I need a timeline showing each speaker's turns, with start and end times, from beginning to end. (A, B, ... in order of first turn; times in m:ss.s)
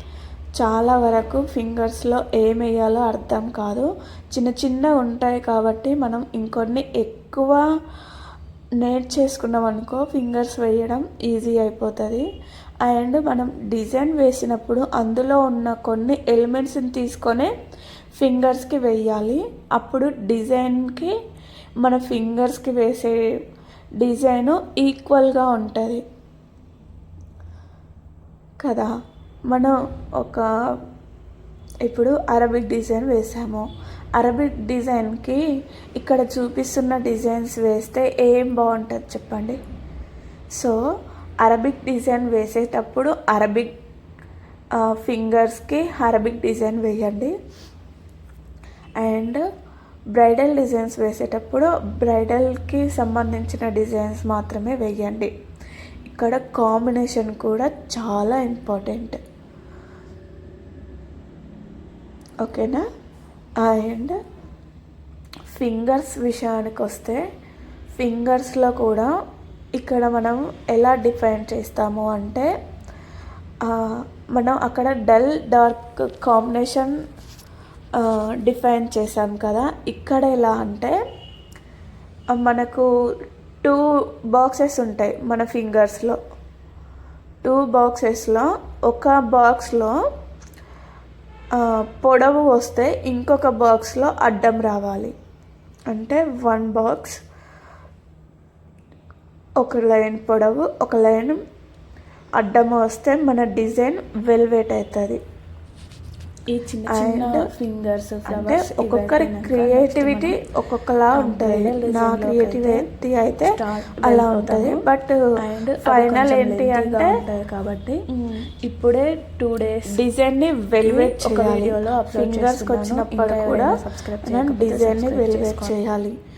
0:00.6-0:07.6 A
0:08.8-0:12.3 A
0:12.8-0:17.5 A
0:18.2-0:21.1 A
0:21.8-0:23.3 A
0:24.0-0:26.0 A
0:28.6-0:28.9 A
0:29.5-0:30.4 A
0:31.8-0:35.4 A
0:36.0-0:39.6 A
0:41.4-0:43.7 A
0:44.8-0:47.3 A
0:49.0-0:49.4 A
0:50.1-0:55.3 A
0:56.1-0:59.2 A
1:02.4-1:02.8 A
1:03.6-1:04.2 A
1:05.5-1:07.2 A
1:08.0-1:09.1 A
1:09.8-1:12.5 A
1:13.6-1:16.9 A
1:18.0-1:21.0 A
1:22.3-1:22.9 A
1:23.6-1:26.2 A
1:27.4-1:30.0 A
1:31.6-1:35.1 A
1:35.9-1:37.2 A
1:39.6-1:41.4 A
1:42.4-1:45.2 A
1:46.5-1:50.4 B
1:46.9-1:47.5 A
1:48.3-1:55.3 A
1:51.1-1:52.9 B
1:53.4-1:54.8 B
1:55.4-1:58.0 B
1:55.8-1:57.1 A
1:58.2-1:58.4 A
1:58.6-2:00.0 B
1:59.9-2:03.7 A
2:00.8-2:05.8 B
2:04.3-2:06.1 A